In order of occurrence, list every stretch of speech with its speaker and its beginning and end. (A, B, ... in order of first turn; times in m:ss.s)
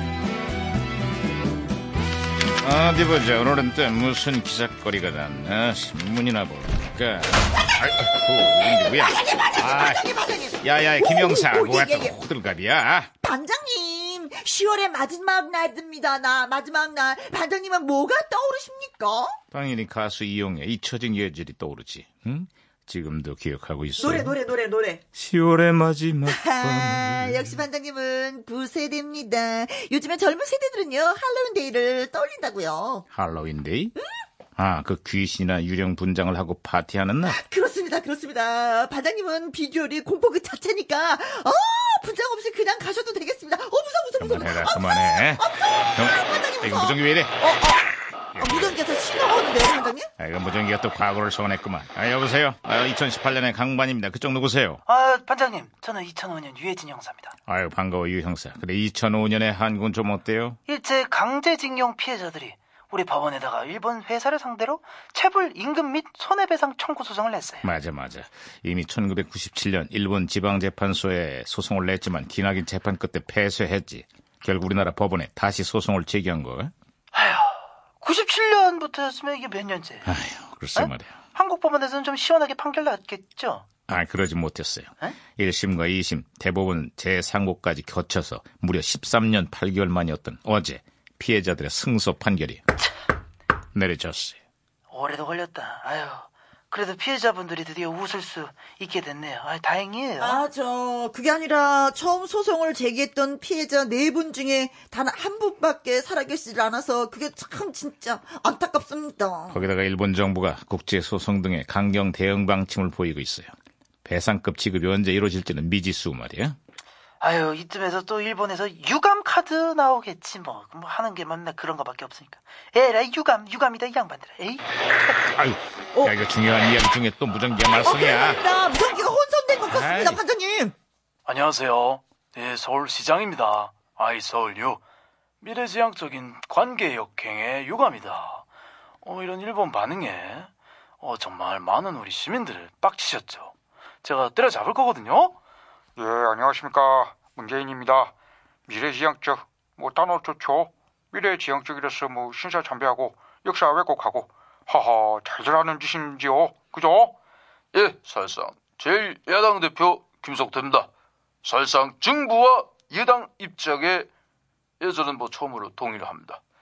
0:02.6-0:10.0 A
0:08.7-0:12.2 B
0:10.6-0:13.1 A
0:13.2-0:19.4 B
0:19.5-0:24.3 A
0:24.0-0:25.0 B
0:25.1-0:27.6 A
0:26.3-0:33.0 B
0:33.1-0:34.0 A
0:34.6-0:37.4 A
0:37.3-0:50.1 B
0:44.2-0:45.4 A
0:46.0-0:47.4 A
0:48.4-0:48.8 A
0:50.2-0:54.8 A
0:54.9-0:57.3 C
0:57.5-1:00.6 A
1:00.7-1:07.7 C
1:07.6-1:16.7 A
1:17.1-1:20.1 C
1:20.1-1:21.1 A
1:20.8-1:23.6 C
1:23.9-1:32.6 A
1:33.8-1:34.4 A
1:34.9-1:40.4 C
1:40.2-1:49.6 B
1:49.5-1:53.5 A
1:54.0-1:56.6 A
1:57.2-2:04.7 C
2:05.3-2:08.4 A
2:07.8-2:10.7 B
2:09.7-2:10.2 A
2:11.3-2:14.8 C
2:15.4-2:18.4 C
2:19.0-2:20.5 C
2:21.0-2:23.5 C
2:24.0-2:25.4 C
2:26.0-2:28.1 D
2:28.7-2:37.2 D
2:37.7-2:40.9 E
2:41.4-2:44.1 E
2:44.8-2:46.4 E